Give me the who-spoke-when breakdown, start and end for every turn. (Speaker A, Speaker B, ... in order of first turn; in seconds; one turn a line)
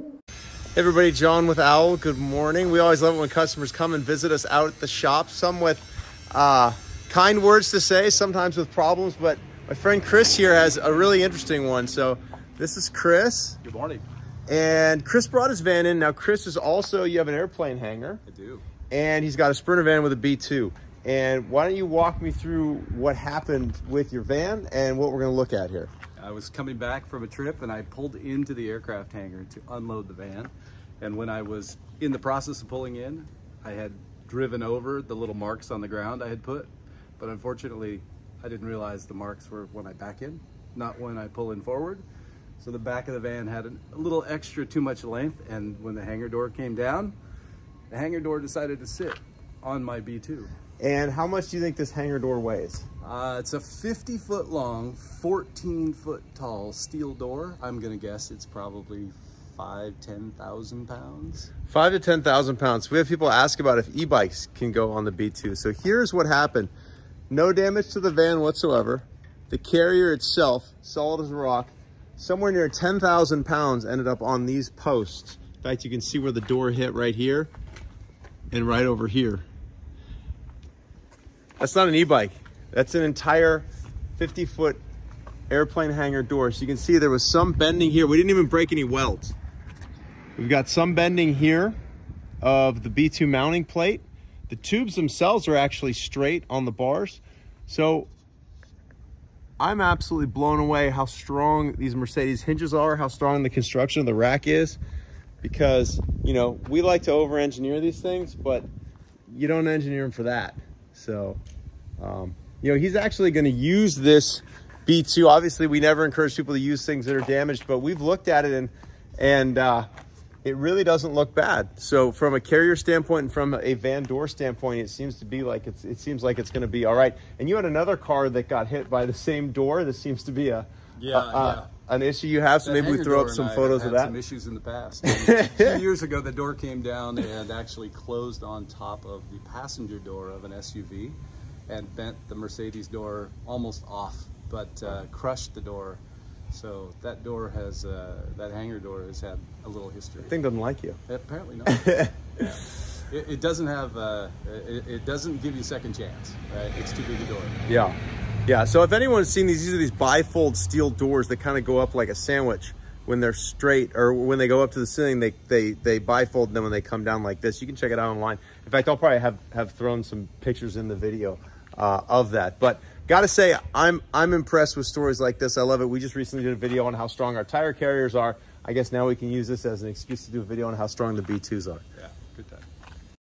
Speaker A: 0.8-13.6
Speaker B: 13.6-14.0
Speaker A: 14.5-18.2
Speaker B: 18.2-18.6
Speaker A: 18.9-25.9
Speaker B: 26.2-42.0
Speaker B: 42.6-47.2
Speaker B: 47.9-50.5
Speaker A: 50.8-52.9
Speaker B: 53.0-61.5
Speaker A: 61.7-66.7
Speaker A: 67.3-77.5
Speaker A: 78.5-79.5
Speaker A: 81.6-84.8
Speaker A: 85.5-89.3
Speaker A: 90.4-91.8
Speaker A: 92.4-98.1
Speaker A: 99.6-104.8
Speaker A: 105.4-108.7
Speaker A: 109.3-111.4
Speaker A: 112.0-119.9
Speaker A: 120.4-134.2
Speaker B: 131.0-131.7
Speaker B: 132.6-150.3
Speaker A: 135.1-135.8
Speaker A: 150.2-151.0
Speaker B: 151.1-151.8
Speaker A: 151.7-152.3
Speaker B: 152.4-157.6
Speaker A: 157.7-181.8
Speaker B: 182.0-182.7